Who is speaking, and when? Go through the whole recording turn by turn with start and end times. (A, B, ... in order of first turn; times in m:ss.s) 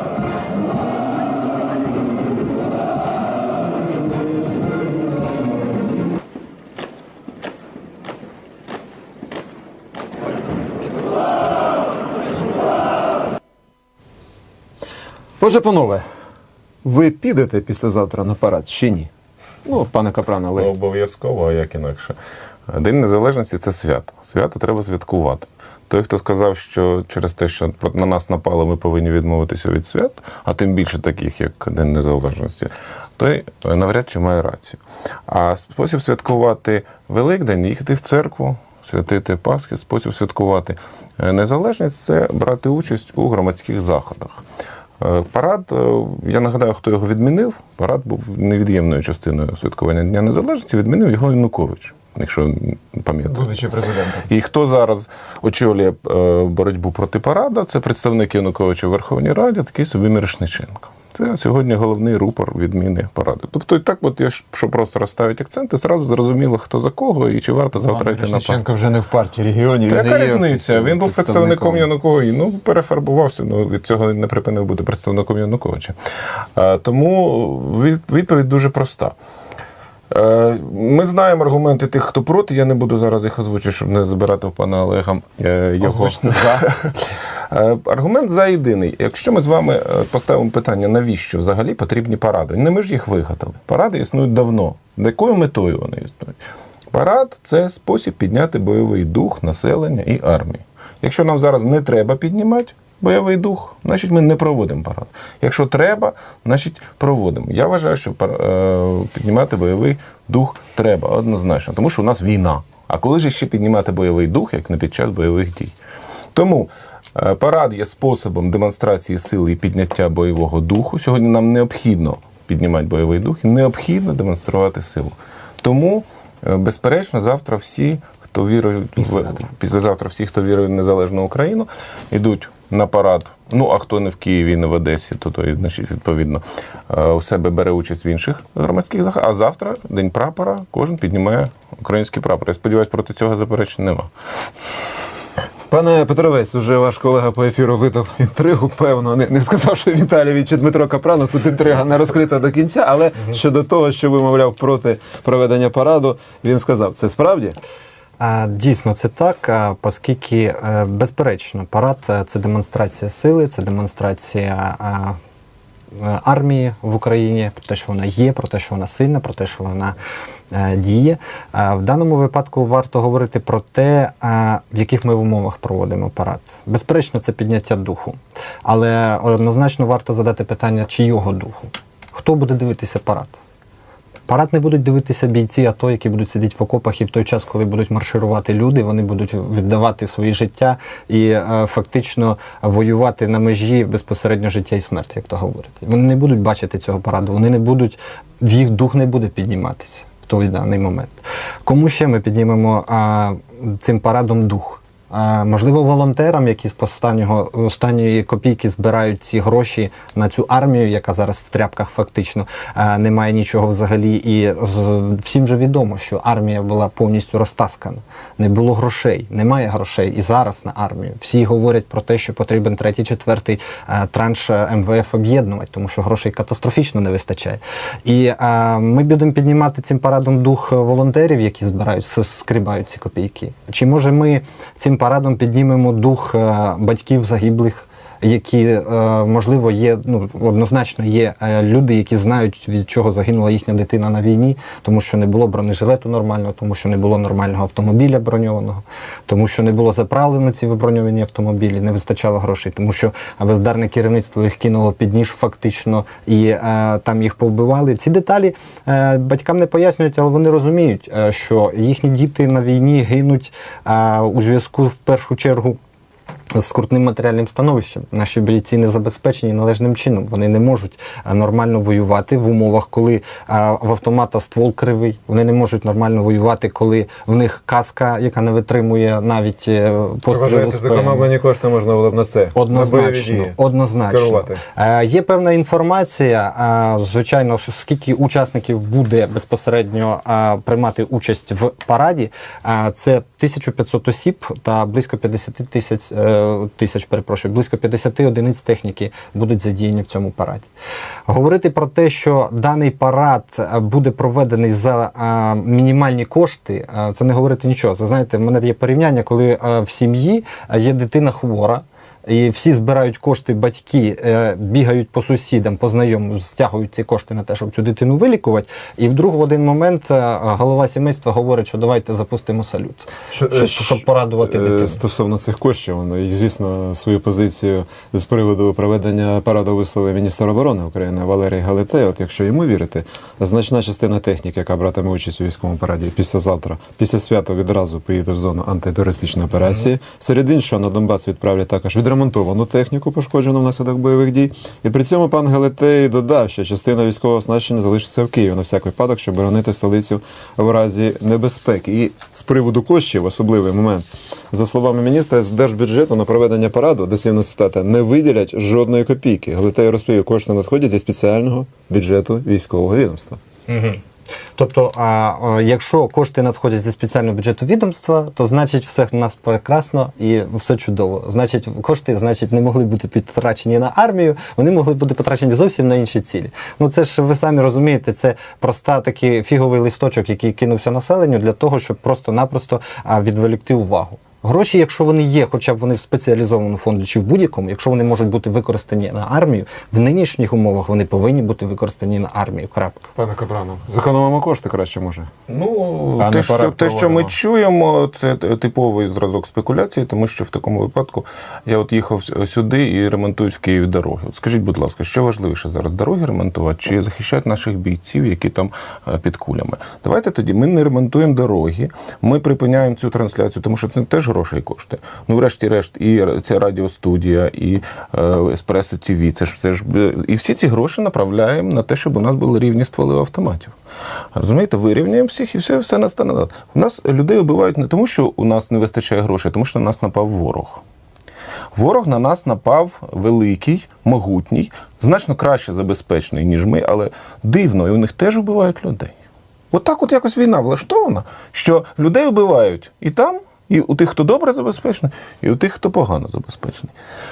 0:15.4-0:16.1 A
0:16.8-0:19.1 A
0:19.6-0:20.7 A
0:20.6-0:22.2 B
0:22.7-0:44.4 B
0:45.0-0:53.6 B
0:53.3-0:54.3 A
0:54.3-1:08.6 B
1:07.8-1:11.9 A
1:09.9-1:16.0 B
1:16.6-1:19.2 B
1:20.1-1:36.4 B
1:25.8-1:26.7 A
1:36.9-1:55.7 B
1:56.4-2:24.1 B
2:09.0-2:09.4 A
2:25.7-2:37.6 A
2:38.2-2:45.2 C
2:46.0-2:50.0 C
2:50.5-3:03.4 C
3:04.3-4:25.8 C
4:26.6-4:41.3 C
4:40.3-4:44.6 A
4:42.6-5:00.7 C
5:01.3-5:25.0 C
5:23.3-6:03.4 A
6:03.7-6:04.0 C
6:04.6-6:33.1 C
6:33.2-6:35.3 A
6:35.5-7:03.7 B
6:36.2-6:37.4 A
7:04.4-7:10.8 B
7:11.8-7:19.1 B
7:19.7-7:26.9 B